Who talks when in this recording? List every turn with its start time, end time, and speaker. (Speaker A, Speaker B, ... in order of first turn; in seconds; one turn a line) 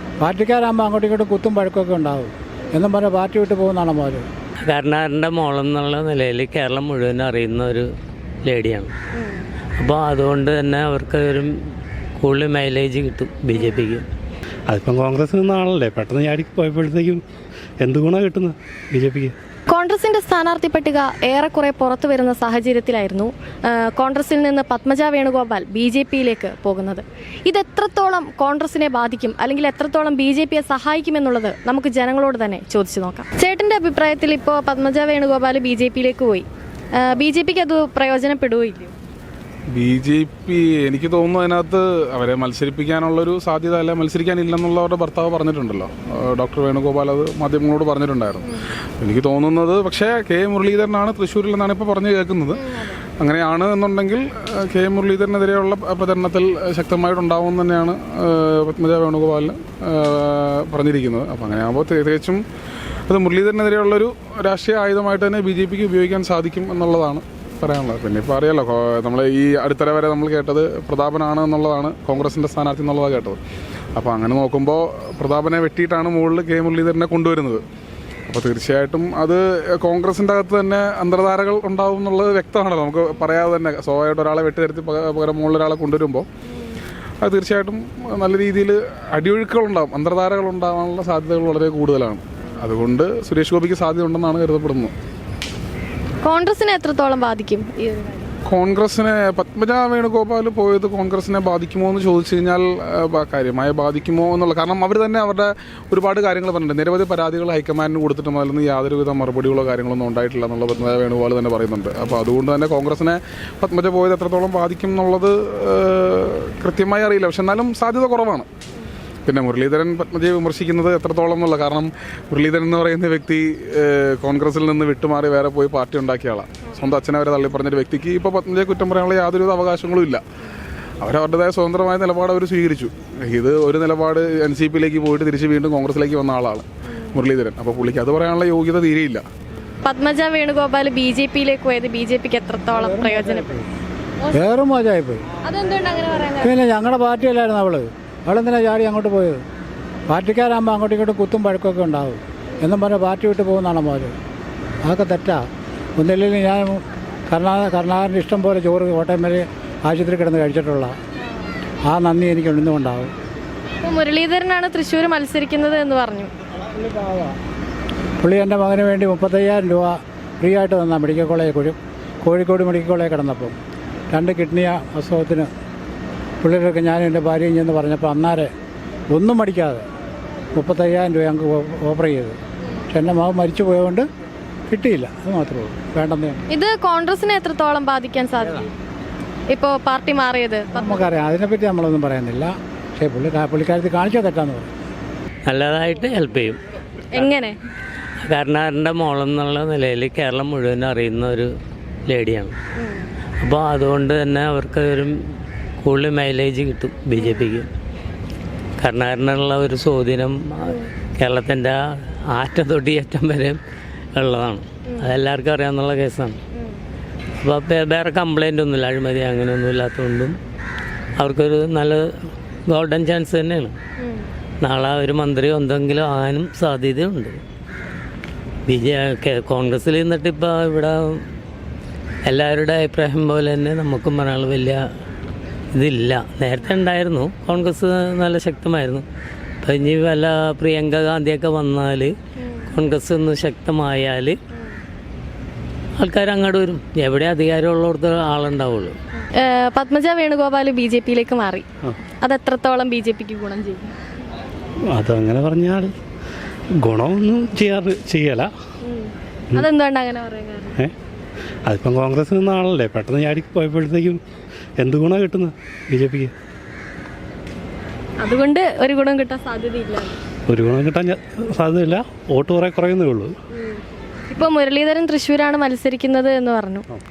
Speaker A: 0.2-4.2
Speaker B: 4.6-7.9
Speaker B: 8.4-8.9
Speaker C: 9.2-9.4
Speaker B: 9.8-11.5
Speaker B: 12.2-14.0
Speaker C: 13.5-13.9
Speaker D: 14.7-17.2
Speaker D: 17.8-19.3
Speaker C: 19.7-38.9
Speaker E: 39.7-52.6
Speaker C: 52.5-53.0
Speaker E: 53.2-62.4
Speaker E: 63.1-73.4
Speaker E: 74.0-77.7
Speaker E: 78.3-86.3
Speaker E: 87.2-94.9
Speaker C: 96.2-98.3
Speaker E: 98.5-118.5
Speaker E: 119.3-130.2
Speaker E: 131.0-139.2
Speaker C: 139.8-143.5
Speaker A: 142.7-143.7
Speaker A: 144.3-145.2
Speaker C: 145.4-146.5
Speaker A: 146.4-149.4
Speaker A: 150.1-154.2
Speaker A: 154.8-155.4
Speaker A: 156.0-160.9
Speaker A: 161.9-163.1
Speaker C: 163.8-166.3
Speaker A: 166.7-167.3
Speaker A: 168.2-173.6
Speaker A: 174.1-175.5
Speaker A: 176.4-178.5
Speaker A: 179.1-179.8
Speaker A: 180.6-182.3
Speaker A: 182.9-184.1
Speaker A: 184.7-186.4
Speaker C: 186.5-188.7
Speaker C: 189.5-191.1
Speaker A: 190.8-194.7
Speaker B: 195.5-196.6
Speaker C: 197.1-197.6
Speaker B: 198.2-201.5
Speaker B: 202.1-202.6
Speaker C: 202.8-203.1
Speaker B: 203.4-205.2
Speaker B: 205.8-207.7
Speaker C: 207.2-207.5
Speaker B: 208.8-213.6
Speaker B: 214.2-216.4
Speaker B: 217.4-220.3
Speaker B: 221.2-222.1
Speaker B: 222.7-223.7
Speaker C: 224.0-224.3
Speaker B: 224.6-227.4
Speaker B: 228.7-231.2
Speaker B: 232.2-234.8
Speaker B: 235.7-239.1
Speaker B: 239.6-242.1
Speaker B: 242.7-244.4
Speaker B: 246.0-248.9
Speaker C: 249.3-251.7
Speaker C: 252.2-253.9
Speaker D: 254.9-255.9
Speaker D: 256.8-258.5
Speaker C: 258.9-260.8
Speaker D: 261.6-264.2
Speaker D: 264.8-266.3
Speaker C: 268.2-270.2
Speaker D: 270.5-273.3
Speaker C: 273.6-276.8